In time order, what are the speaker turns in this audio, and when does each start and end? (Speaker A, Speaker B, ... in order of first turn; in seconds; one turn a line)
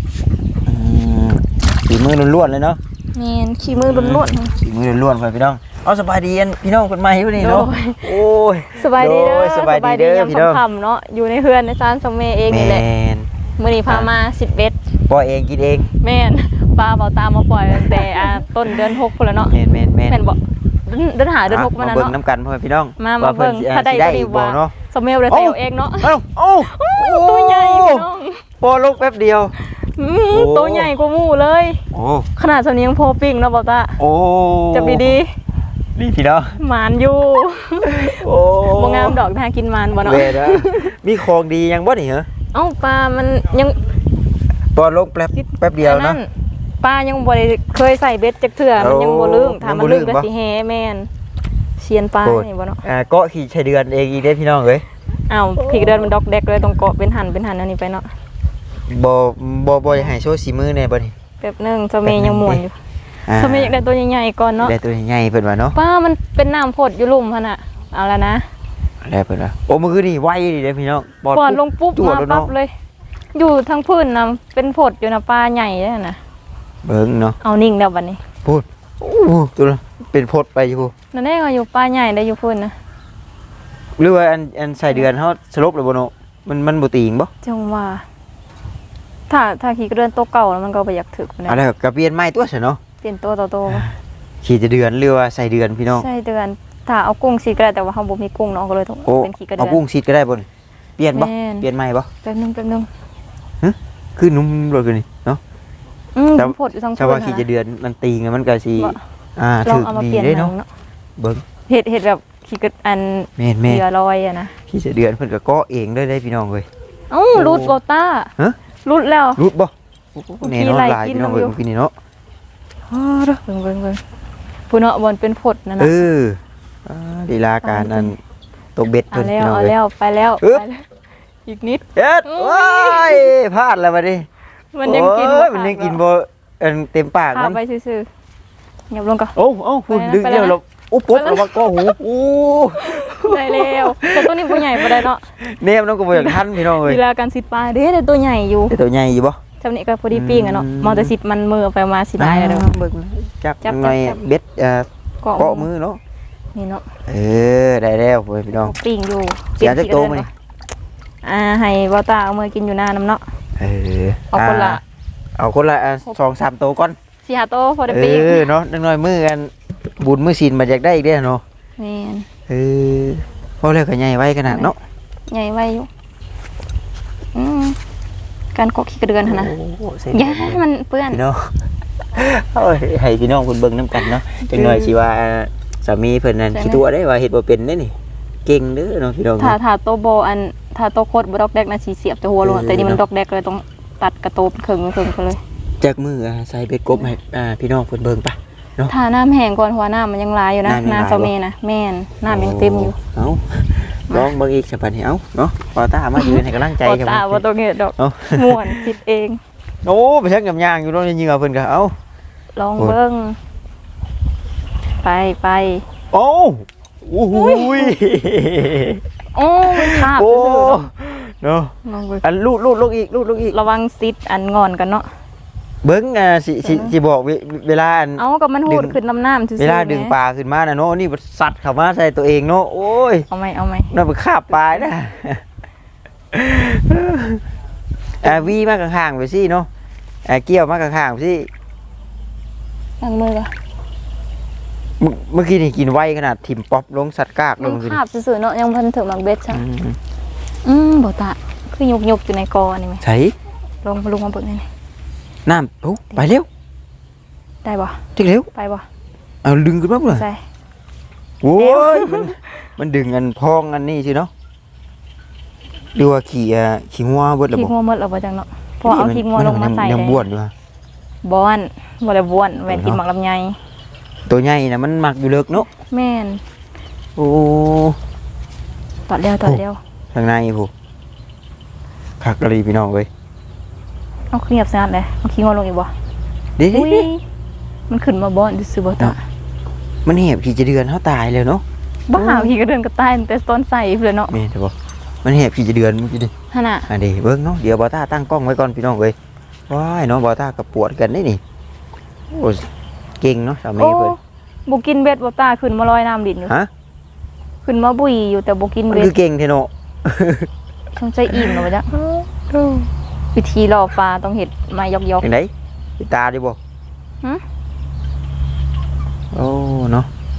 Speaker A: 0.7-2.8
Speaker B: 3.1-4.6
Speaker A: 3.6-10.6
Speaker B: 7.4-12.8
Speaker A: 12.5-13.3
Speaker B: 13.6-14.8
Speaker A: 15.1-15.9
Speaker B: 16.0-19.5
Speaker A: 17.8-18.4
Speaker A: 19.5-20.2
Speaker B: 20.1-22.1
Speaker A: 21.5-24.7
Speaker B: 23.0-28.4
Speaker A: 25.3-28.1
Speaker A: 28.6-29.6
Speaker B: 29.6-31.8
Speaker A: 30.3-30.9
Speaker A: 31.9-32.3
Speaker B: 32.4-34.0
Speaker A: 34.0-35.2
Speaker B: 34.7-35.3
Speaker A: 36.0-36.6
Speaker B: 36.6-41.0
Speaker A: 37.8-39.2
Speaker A: 40.0-42.3
Speaker B: 42.5-43.8
Speaker A: 44.7-46.2
Speaker B: 45.8-46.3
Speaker B: 46.8-51.1
Speaker A: 48.8-50.3
Speaker B: 51.8-52.8
Speaker A: 52.2-54.9
Speaker B: 55.3-58.1
Speaker A: 58.9-61.1
Speaker B: 61.4-62.8
Speaker A: 62.0-62.6
Speaker A: 63.3-63.8
Speaker B: 63.3-64.7
Speaker A: 64.6-65.8
Speaker B: 65.7-68.5
Speaker A: 69.0-72.5
Speaker B: 71.3-72.7
Speaker B: 73.3-76.2
Speaker A: 76.8-77.4
Speaker B: 77.4-78.2
Speaker A: 78.4-80.9
Speaker B: 81.1-82.7
Speaker A: 84.0-87.3
Speaker B: 87.4-88.0
Speaker B: 89.3-91.6
Speaker A: 91.5-92.8
Speaker B: 93.0-93.9
Speaker A: 94.4-96.1
Speaker B: 95.9-99.8
Speaker A: 99.1-100.5
Speaker A: 101.0-102.1
Speaker B: 101.1-101.7
Speaker B: 102.2-102.9
Speaker A: 103.6-105.4
Speaker B: 106.2-107.5
Speaker A: 106.4-110.5
Speaker B: 109.7-110.7
Speaker A: 111.2-111.4
Speaker B: 111.7-114.5
Speaker A: 113.4-113.8
Speaker A: 114.7-116.7
Speaker B: 117.1-118.3
Speaker A: 117.3-117.8
Speaker B: 118.8-119.4
Speaker A: 119.4-121.9
Speaker B: 120.4-121.6
Speaker A: 122.9-123.4
Speaker B: 123.5-124.0
Speaker B: 124.7-126.0
Speaker A: 125.8-128.2
Speaker B: 127.6-128.1
Speaker A: 128.8-129.7
Speaker B: 129.1-130.8
Speaker B: 131.5-133.3
Speaker A: 132.0-134.3
Speaker B: 134.7-136.0
Speaker A: 134.8-137.6
Speaker B: 137.3-138.1
Speaker B: 138.9-139.3
Speaker A: 139.4-147.0
Speaker B: 139.9-140.6
Speaker B: 141.1-141.9
Speaker B: 142.8-145.2
Speaker B: 146.1-148.8
Speaker A: 148.7-149.4
Speaker B: 149.6-152.7
Speaker A: 150.1-151.1
Speaker A: 152.2-156.0
Speaker B: 153.6-154.2
Speaker B: 155.2-155.7
Speaker B: 156.6-156.8
Speaker A: 157.1-158.7
Speaker B: 158.6-160.3
Speaker A: 159.6-160.3
Speaker B: 161.2-163.2
Speaker A: 163.6-164.8
Speaker B: 164.3-164.8
Speaker A: 165.4-167.0
Speaker B: 167.2-168.5
Speaker A: 167.9-171.4
Speaker B: 171.8-172.3
Speaker A: 172.5-174.8
Speaker B: 175.3-175.9
Speaker B: 177.3-177.8
Speaker B: 178.5-179.5
Speaker A: 179.2-181.5
Speaker B: 180.1-181.2
Speaker A: 182.2-189.6
Speaker B: 184.5-184.9
Speaker B: 186.5-186.8
Speaker B: 189.4-195.4
Speaker A: 192.4-193.0
Speaker A: 195.8-198.9
Speaker B: 198.8-203.0
Speaker A: 200.7-201.3
Speaker A: 202.3-207.4
Speaker B: 206.2-209.4
Speaker A: 208.0-208.9
Speaker A: 209.8-211.9
Speaker B: 212.6-213.4
Speaker B: 215.0-215.8
Speaker A: 216.1-219.0
Speaker B: 217.3-218.0
Speaker B: 219.3-220.8
Speaker A: 219.7-223.6
Speaker B: 221.8-222.2
Speaker B: 223.5-225.1
Speaker A: 225.8-229.0
Speaker B: 226.6-226.9
Speaker B: 228.2-230.2
Speaker A: 229.6-233.3
Speaker B: 233.3-233.9
Speaker A: 233.9-235.4
Speaker A: 236.3-237.4
Speaker A: 238.2-239.7
Speaker B: 238.2-238.5
Speaker A: 240.2-241.5
Speaker B: 243.0-243.5
Speaker A: 245.0-248.0
Speaker B: 247.6-249.6
Speaker A: 249.5-250.0
Speaker B: 250.6-253.0
Speaker A: 253.0-253.3
Speaker B: 253.8-254.7
Speaker A: 255.4-256.5
Speaker B: 257.6-258.0
Speaker A: 258.2-258.5
Speaker B: 258.6-258.9
Speaker A: 259.4-260.3
Speaker B: 260.1-260.4
Speaker A: 261.4-264.3
Speaker B: 261.6-262.4
Speaker A: 266.0-267.7
Speaker B: 267.5-270.2
Speaker A: 268.9-270.5
Speaker B: 271.2-273.6
Speaker A: 272.7-273.0
Speaker A: 274.3-275.7
Speaker B: 275.7-276.4
Speaker A: 277.2-278.0
Speaker B: 279.1-279.8
Speaker A: 280.1-280.7
Speaker A: 282.2-283.1
Speaker B: 284.3-285.9
Speaker A: 286.6-287.1
Speaker B: 286.7-287.2
Speaker B: 287.9-289.2
Speaker A: 290.1-291.6
Speaker B: 292.1-294.3
Speaker A: 292.1-292.6
Speaker A: 294.3-296.3
Speaker B: 296.5-296.9
Speaker A: 296.9-299.2
Speaker A: 299.7-301.4
Speaker A: 302.3-304.1
Speaker B: 303.8-306.5
Speaker B: 307.6-309.1
Speaker A: 308.9-310.5
Speaker B: 310.9-311.9
Speaker A: 311.3-312.9
Speaker B: 313.3-315.3
Speaker A: 315.2-316.6
Speaker A: 319.3-320.1